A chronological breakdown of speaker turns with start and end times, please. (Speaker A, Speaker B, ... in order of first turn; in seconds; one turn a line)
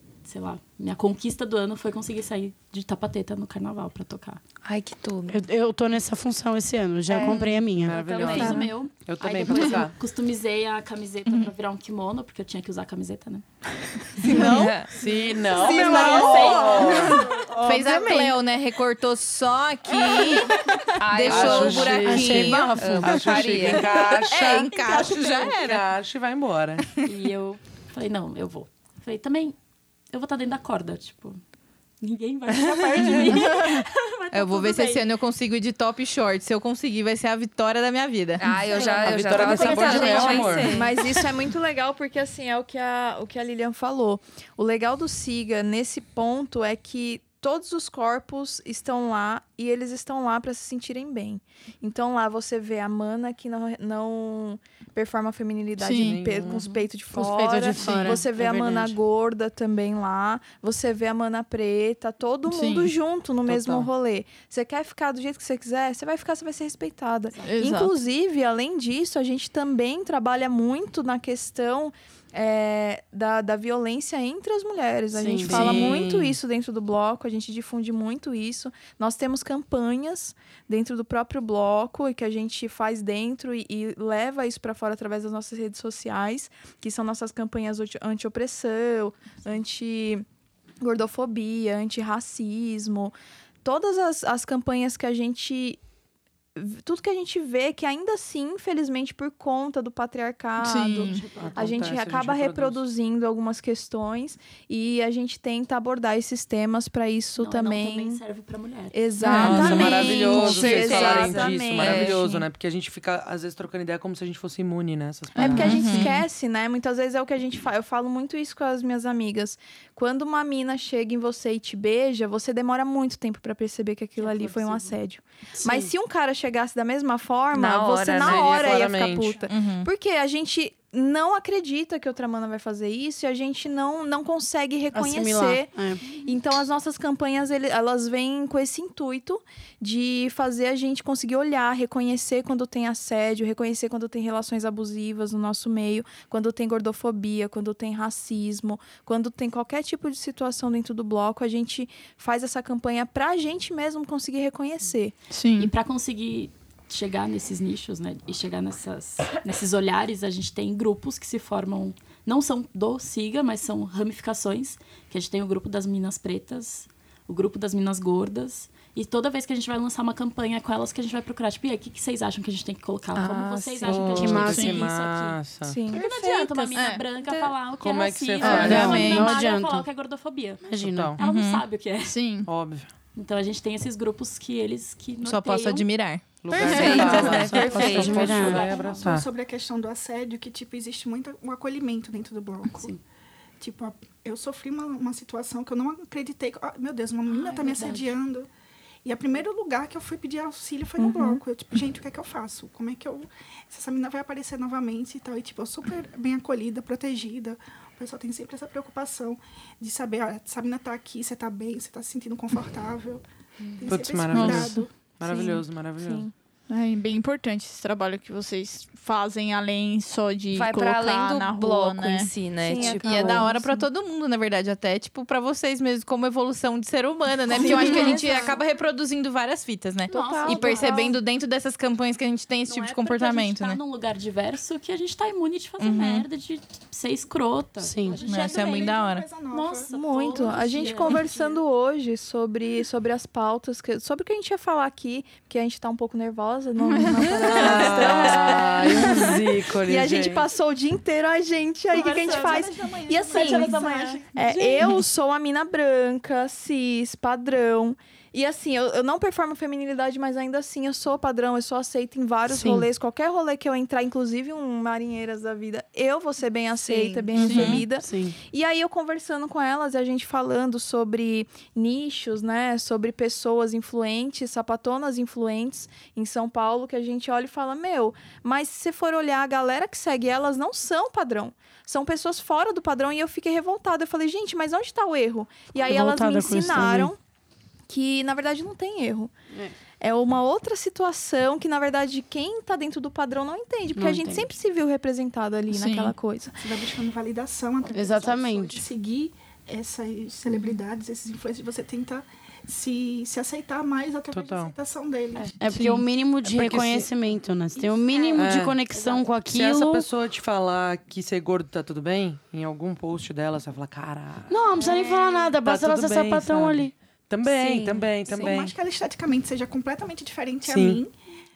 Speaker A: 0.2-4.4
Speaker B: 4.6-5.4
Speaker C: 5.3-8.0
Speaker B: 7.1-8.5
Speaker D: 7.8-9.9
Speaker A: 8.0-13.4
Speaker E: 8.4-8.7
Speaker E: 14.3-14.6
Speaker C: 14.3-14.7
Speaker B: 14.3-14.9
Speaker D: 14.9-17.3
Speaker E: 15.5-17.1
Speaker A: 15.6-17.2
Speaker C: 15.7-16.7
Speaker F: 17.4-22.9
Speaker C: 17.5-18.1
Speaker C: 20.1-20.4
Speaker B: 21.0-24.0
Speaker D: 21.3-26.9
Speaker C: 21.9-23.6
Speaker F: 24.1-25.8
Speaker A: 27.0-29.5
Speaker A: 30.1-31.4
Speaker A: 32.0-35.1
Speaker G: 32.7-33.5
Speaker F: 34.3-38.5
Speaker B: 38.4-41.0
Speaker A: 38.5-40.8
Speaker D: 38.7-40.7
Speaker E: 40.7-90.2
Speaker H: 55.8-56.2
Speaker D: 55.9-56.7
Speaker A: 56.5-56.8
Speaker C: 57.1-58.7
Speaker A: 57.8-58.2
Speaker H: 62.5-62.9
Speaker D: 63.5-63.9
Speaker A: 67.3-67.8
Speaker H: 67.5-67.9
Speaker C: 75.1-76.1
Speaker D: 75.4-76.4
Speaker E: 90.8-95.8
Speaker E: 96.5-108.2
Speaker H: 100.6-101.2
Speaker A: 101.0-101.5
Speaker D: 101.3-102.8
Speaker A: 107.4-109.0
Speaker E: 108.9-112.5
Speaker F: 109.2-109.9
Speaker H: 109.3-109.8
Speaker D: 109.4-116.0
Speaker B: 109.9-112.1
Speaker E: 115.3-155.1
Speaker F: 115.5-116.1
Speaker H: 115.6-116.0
Speaker A: 124.2-125.0
Speaker C: 125.5-125.9
Speaker B: 127.5-128.4
Speaker D: 128.2-129.4
Speaker F: 129.5-129.9
Speaker C: 134.9-136.1
Speaker H: 155.3-155.7
Speaker A: 155.6-175.4
Speaker B: 173.1-174.1
Speaker D: 173.8-175.8
Speaker C: 174.1-174.8
Speaker H: 174.5-174.8
Speaker E: 175.6-176.7
Speaker A: 175.9-182.2
Speaker B: 176.1-176.5
Speaker H: 176.7-177.0
Speaker B: 177.2-177.5
Speaker D: 177.8-179.1
Speaker F: 178.4-179.3
Speaker C: 178.4-179.9
Speaker C: 180.6-181.1
Speaker D: 180.8-181.2
Speaker F: 181.2-181.6
Speaker H: 182.0-182.5
Speaker D: 182.4-182.9
Speaker A: 183.2-185.9
Speaker F: 185.2-186.2
Speaker D: 186.4-189.3
Speaker B: 186.5-188.4
Speaker H: 186.7-187.0
Speaker C: 186.8-188.7
Speaker A: 187.5-189.2
Speaker G: 188.5-192.9
Speaker G: 193.6-198.5
Speaker A: 197.3-198.1
Speaker G: 199.0-213.2
Speaker E: 201.0-201.4
Speaker G: 213.8-214.9
Speaker D: 213.8-216.2
Speaker H: 214.3-214.7
Speaker E: 215.2-216.3
Speaker H: 216.7-222.3
Speaker B: 220.5-223.4
Speaker E: 222.6-223.6
Speaker F: 222.8-233.8
Speaker H: 223.1-223.5
Speaker G: 227.5-228.5
Speaker E: 227.6-228.4
Speaker A: 230.1-231.2
Speaker E: 230.1-231.1
Speaker A: 232.7-238.9
Speaker F: 235.8-236.2
Speaker C: 237.8-238.3
Speaker G: 238.0-241.3
Speaker F: 238.2-239.2
Speaker A: 239.5-241.6
Speaker E: 239.9-253.8
Speaker H: 246.9-247.4
Speaker D: 247.4-250.4
Speaker A: 251.9-252.7
Speaker G: 251.9-254.8
Speaker A: 253.2-255.0
Speaker E: 254.3-287.2
Speaker C: 262.5-262.9
Speaker F: 266.9-267.8
Speaker H: 267.3-267.8
Speaker C: 267.5-268.4
Speaker C: 285.7-287.1
Speaker E: 287.9-289.3
Speaker E: 290.0-296.6
Speaker C: 293.9-294.4
Speaker H: 295.7-296.1
Speaker G: 296.6-305.6
Speaker C: 297.9-298.8
Speaker D: 304.3-304.7
Speaker C: 305.6-310.1
Speaker H: 305.7-306.0
Speaker D: 306.4-307.1
Speaker A: 307.7-309.3
Speaker D: 308.3-308.8
Speaker D: 309.5-314.6
Speaker C: 314.5-316.9
Speaker A: 314.7-315.6
Speaker D: 315.6-318.7
Speaker B: 317.5-318.6
Speaker G: 318.2-321.1
Speaker D: 320.6-321.0